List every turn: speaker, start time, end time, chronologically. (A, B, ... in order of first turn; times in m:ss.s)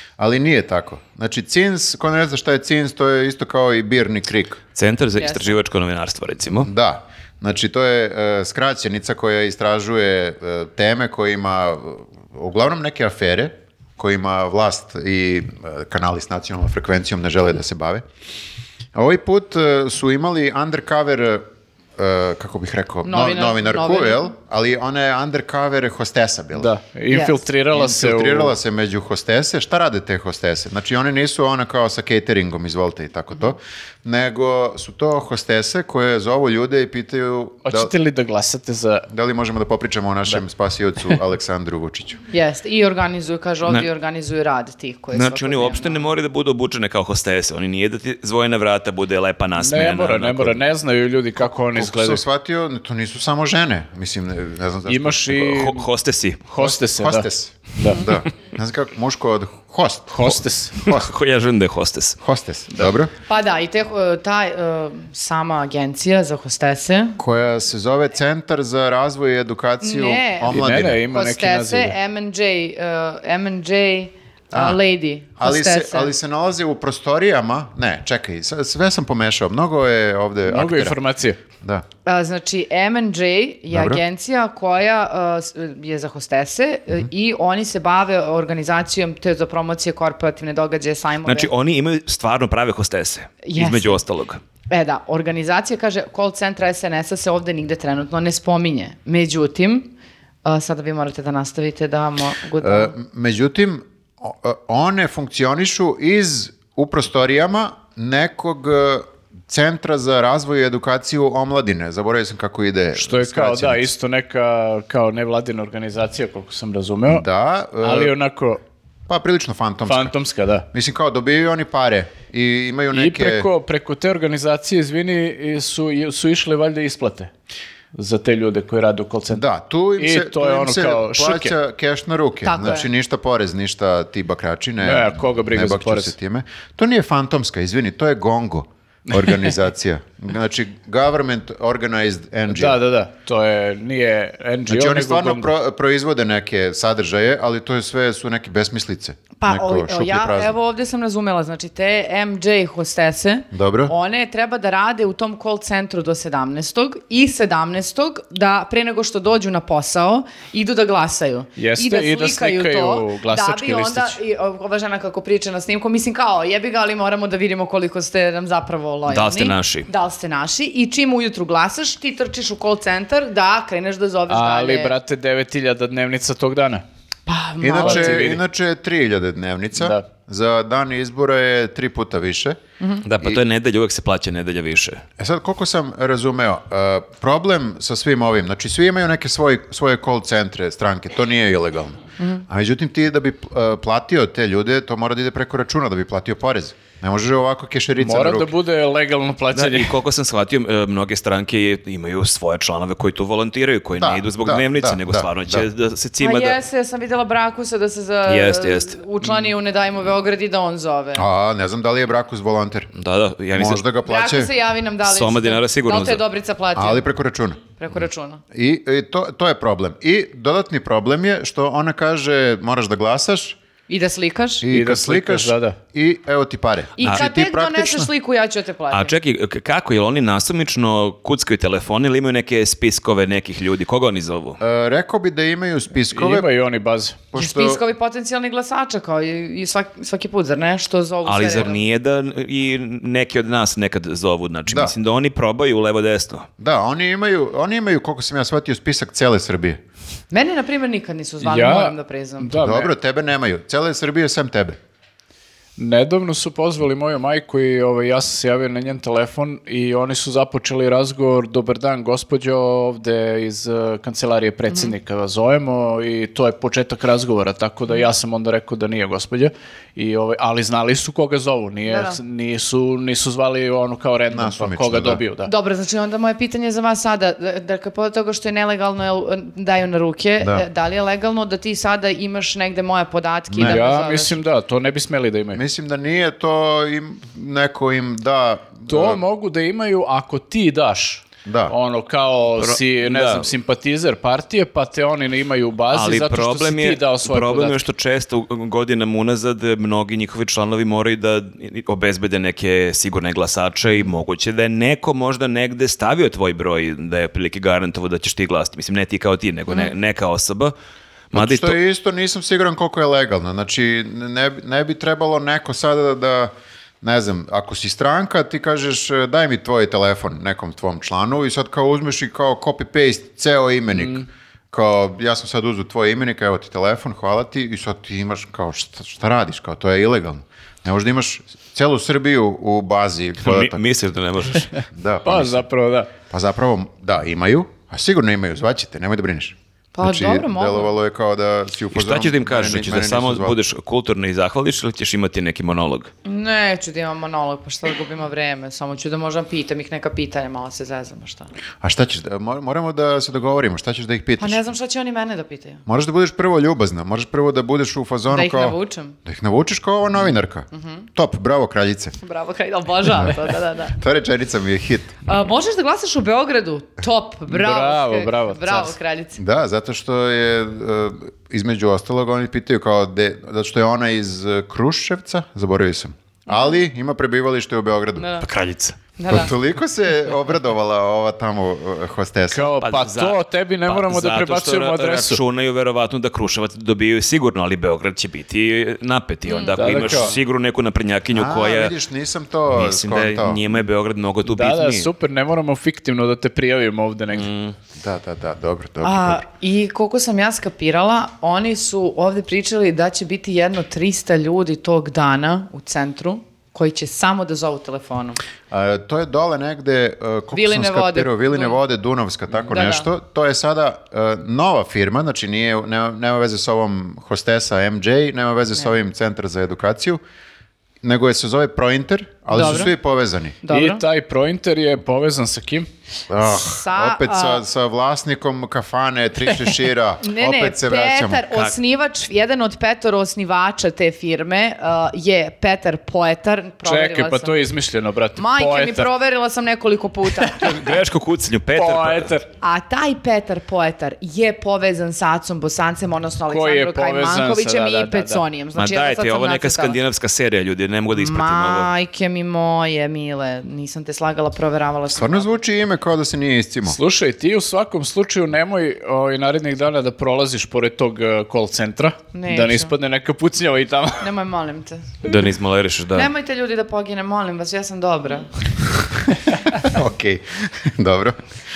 0:00.2-0:04.6 A
0:04.7-0:06.7 B
0:05.2-0:05.5 C
0:06.6-0:18.0 A
0:18.9-0:21.4 A
0:22.0-0:26.7 A
0:23.0-0:24.3 C
0:26.5-0:28.5 D
0:27.1-0:27.4 C
0:27.7-0:37.9 A
0:37.6-0:39.1 D
0:39.1-0:42.2 A
0:42.3-0:46.0 C
0:45.1-0:50.6 B
0:49.6-0:52.2 D
0:51.7-0:55.6 A
0:54.9-0:55.9 D
0:55.4-0:56.4 B
0:56.5-0:58.0 D
0:56.6-1:01.1 A
1:00.1-1:00.8 D
1:00.8-1:02.2 B
1:02.2-1:03.1 A
1:03.3-1:07.2 C
1:07.2-1:11.0 A
1:09.8-1:16.1 C
1:10.5-1:12.0 D
1:14.5-1:14.8 A
1:15.4-1:21.0 A
1:20.5-1:21.4 D
1:22.0-1:31.5 C
1:23.7-1:24.0 A
1:31.2-1:34.4 B
1:33.4-1:34.0 C
1:34.7-1:39.9 C
1:40.4-1:42.9 C
1:42.6-1:53.9 A
1:53.0-1:57.2 D
1:57.1-1:58.1 A
1:57.8-1:58.6 D
1:59.1-2:00.1 A
1:59.9-2:00.6 D
2:00.7-2:03.5 A
2:02.9-2:07.3 D
2:07.9-2:09.4 D
2:09.3-2:22.8 A
2:10.0-2:11.5 D
2:12.4-2:12.9 C
2:14.8-2:16.1 D
2:19.2-2:19.5 D
2:22.5-2:25.5 D
2:24.7-2:30.5 A
2:29.4-2:54.9 C
2:33.5-2:33.9 A
2:41.6-2:44.2 D
2:49.1-2:49.9 B
2:54.3-2:56.8 D
2:57.3-2:58.3 C
2:57.6-3:02.6 A
2:57.8-2:58.4 D
2:59.7-3:00.0 D
3:03.0-3:05.0 B
3:05.2-3:18.5 A
3:18.0-3:20.0 D
3:19.5-3:26.6 B
3:24.0-3:25.6 A
3:26.2-3:31.2 C
3:28.2-3:29.0 B
3:31.1-3:32.9 A
3:33.0-3:33.8 B
3:33.5-3:34.5 A
3:34.0-3:37.0 C
3:35.0-3:36.2 B
3:36.7-3:37.6 A
3:37.8-3:38.4 C
3:38.5-3:43.6 A
3:43.9-3:44.6 C
3:44.6-3:48.1 A
3:44.7-3:45.8 D
3:47.0-3:49.1 C
3:48.9-3:54.6 B
3:54.6-3:56.5 A
3:56.1-3:57.2 D
3:57.3-3:57.8 A
3:57.3-4:01.8 C
4:01.2-4:06.5 B
4:04.7-4:04.9 A
4:06.6-4:09.8 A
4:10.3-4:12.5 C
4:11.4-4:12.9 D
4:12.6-4:14.8 A
4:15.8-4:35.5 D
4:31.9-4:32.2 C
4:34.3-4:35.2 A
4:35.4-4:44.4 C
4:40.4-4:40.6 A
4:43.5-4:43.8 A
4:43.6-4:45.6 D
4:45.5-4:49.2 A
4:48.9-4:57.8 D
4:51.4-4:51.7 A
4:52.6-4:53.5 B
4:55.9-5:10.7 B
5:11.3-5:11.8 B
5:11.3-5:33.8 A
5:24.0-5:24.2 D
5:33.4-5:34.7 B
5:34.9-5:35.6 A
5:35.2-5:36.1 D
5:36.3-5:43.6 A
5:39.9-5:40.9 C
5:41.9-5:46.1 B
5:46.2-5:51.5 C
5:51.8-5:54.6 A
5:54.4-5:55.8 C
5:55.9-6:02.2 A
5:58.3-5:59.1 C
6:00.7-6:01.0 C
6:02.2-6:04.0 C
6:03.0-6:03.4 A
6:03.9-6:05.2 A
6:05.2-6:09.4 C
6:07.5-6:09.0 D
6:09.4-6:18.3 A
6:16.5-6:16.8 C
6:18.2-6:18.4 C
6:18.4-6:19.0 B
6:19.2-6:19.5 C
6:19.3-6:22.7 A
6:22.5-6:25.4 D
6:22.8-6:31.9 B
6:29.5-6:30.0 C
6:29.8-6:30.3 D
6:31.3-6:33.6 A
6:32.7-6:35.1 B
6:34.4-6:37.5 D
6:37.3-6:37.7 B
6:38.0-6:39.4 A
6:39.0-6:48.4 C
6:48.7-7:00.2 A
6:50.5-6:51.8 C
6:52.7-6:53.1 C
7:01.0-7:03.6 A
7:02.5-7:02.9 C
7:03.6-7:04.0 C
7:03.7-7:05.9 D
7:06.3-7:11.4 A
7:06.4-7:07.6 C
7:10.2-7:17.6 C
7:16.8-7:19.1 D
7:18.4-7:20.9 C
7:20.6-7:22.3 B
7:21.7-7:22.5 D
7:22.6-7:30.0 C
7:26.5-7:28.4 D
7:28.8-7:31.9 B
7:31.1-7:35.5 C
7:35.1-7:37.0 A
7:36.8-7:44.3 D
7:42.3-7:42.9 C
7:44.2-7:45.2 C
7:45.2-7:46.3 B
7:46.1-7:48.7 C
7:49.8-7:51.4 A